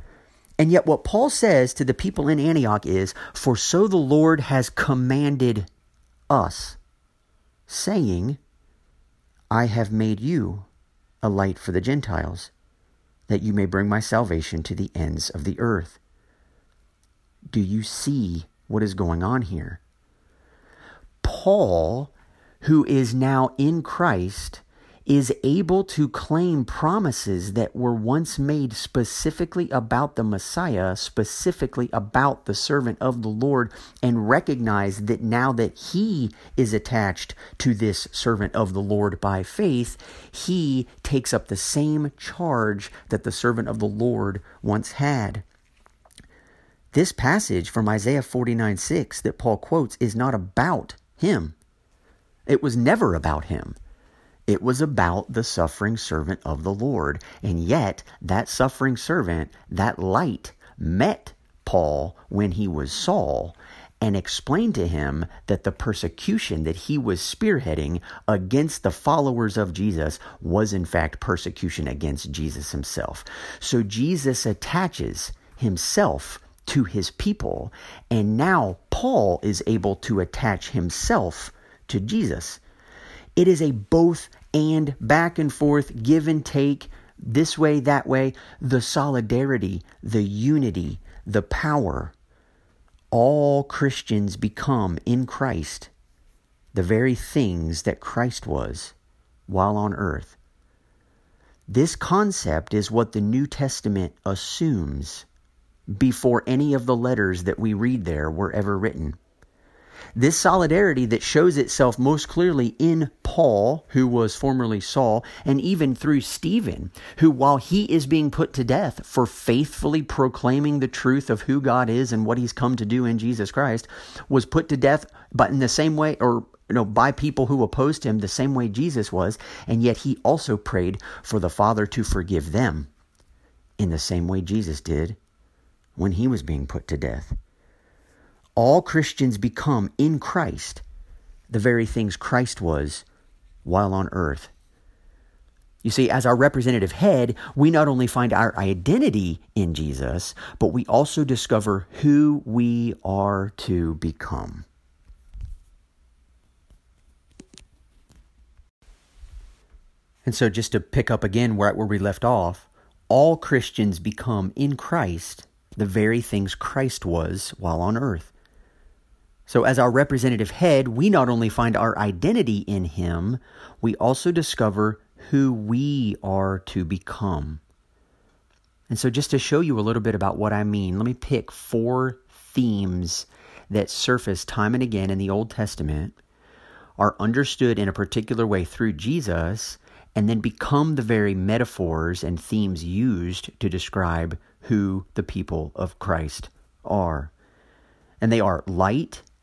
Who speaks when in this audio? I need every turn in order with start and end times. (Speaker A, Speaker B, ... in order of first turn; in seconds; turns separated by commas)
Speaker A: 0.6-5.7, Speaker A: 6.3-6.8, Speaker A: 7.7-8.4, Speaker A: 9.5-10.7, Speaker A: 11.2-12.5, Speaker A: 13.3-16.0, Speaker A: 17.5-19.8, Speaker A: 21.2-45.4, Speaker A: 46.9-51.5, Speaker A: 52.5-53.8, Speaker A: 54.5-82.6, Speaker A: 83.3-92.1, Speaker A: 93.1-95.9, Speaker A: 96.7-98.9, Speaker A: 99.5-100.3, Speaker A: 101.7-105.3, Speaker A: 106.0-109.2, Speaker A: 110.1-132.9, Speaker A: 133.8-135.2, Speaker A: 135.9-137.3, Speaker A: 138.6-140.8, Speaker A: 141.5-143.0, Speaker A: 143.6-144.5, Speaker A: 145.8-154.7, Speaker A: 160.2-168.3, Speaker A: 169.5-177.6, Speaker A: 178.9-186.2, Speaker A: 187.0-197.3, Speaker A: 198.2-199.2